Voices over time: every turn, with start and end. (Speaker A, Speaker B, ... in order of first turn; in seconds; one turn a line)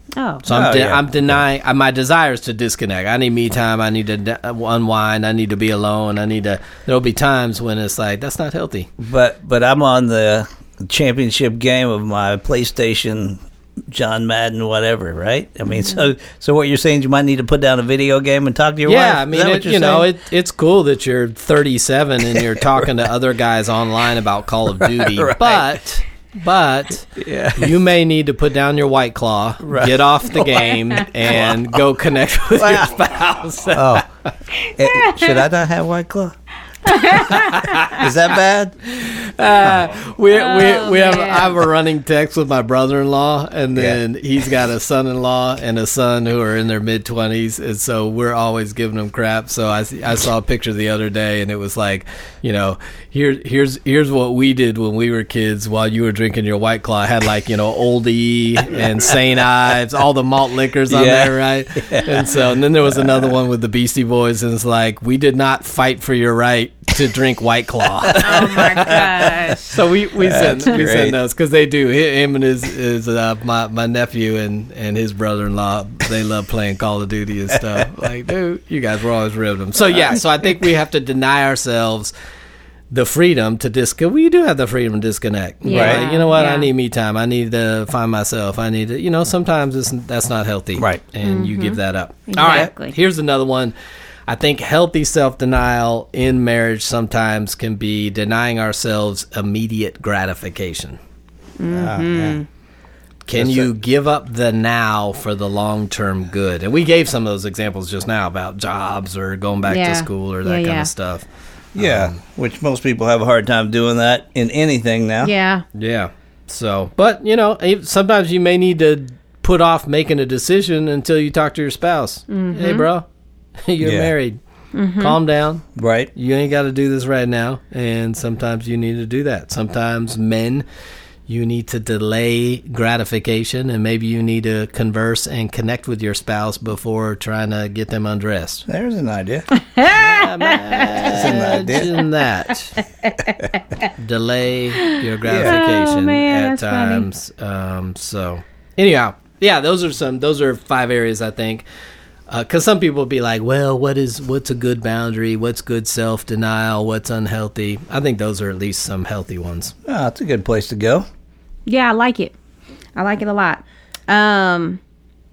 Speaker A: 0.2-0.4
Speaker B: 0.4-8.9
Speaker C: 0.5-1.4
Speaker C: 9.0-20.1
Speaker B: 18.9-34.0
Speaker C: 24.8-25.8
Speaker C: 27.1-27.7
Speaker C: 29.6-30.6
Speaker C: 31.3-31.7
Speaker C: 32.6-32.9
Speaker C: 33.7-34.0
Speaker A: 34.6-35.4
Speaker C: 34.8-36.3
Speaker A: 36.8-37.9
Speaker B: 37.2-38.1
Speaker C: 37.8-38.8
Speaker B: 38.9-82.1
Speaker A: 40.3-41.5
Speaker C: 60.9-62.2
Speaker C: 68.1-69.1
Speaker A: 68.2-69.7
Speaker C: 70.2-71.2
Speaker B: 82.9-93.7
Speaker A: 85.6-86.7
Speaker C: 85.7-86.0
Speaker C: 90.8-91.0
Speaker A: 91.2-92.9
Speaker B: 94.3-101.0
Speaker A: 101.6-102.5
Speaker C: 101.7-102.4
Speaker B: 103.3-111.2
Speaker C: 103.3-103.7
Speaker A: 109.7-110.9
Speaker C: 111.7-115.3
Speaker B: 111.8-112.1
Speaker A: 115.2-115.6
Speaker B: 115.7-123.0
Speaker A: 122.3-122.9
Speaker B: 123.6-124.4
Speaker C: 123.8-124.1
Speaker A: 124.7-125.2
Speaker B: 125.0-130.6
Speaker C: 125.8-126.1
Speaker B: 131.3-138.7
Speaker C: 138.7-139.5
Speaker A: 139.5-142.1
Speaker B: 139.8-142.8
Speaker C: 141.1-142.0
Speaker A: 142.8-143.9
Speaker B: 143.9-151.6
Speaker A: 144.8-147.1
Speaker C: 145.2-145.6
Speaker B: 152.3-159.7
Speaker C: 159.8-161.0
Speaker A: 161.7-162.3
Speaker A: 162.9-164.8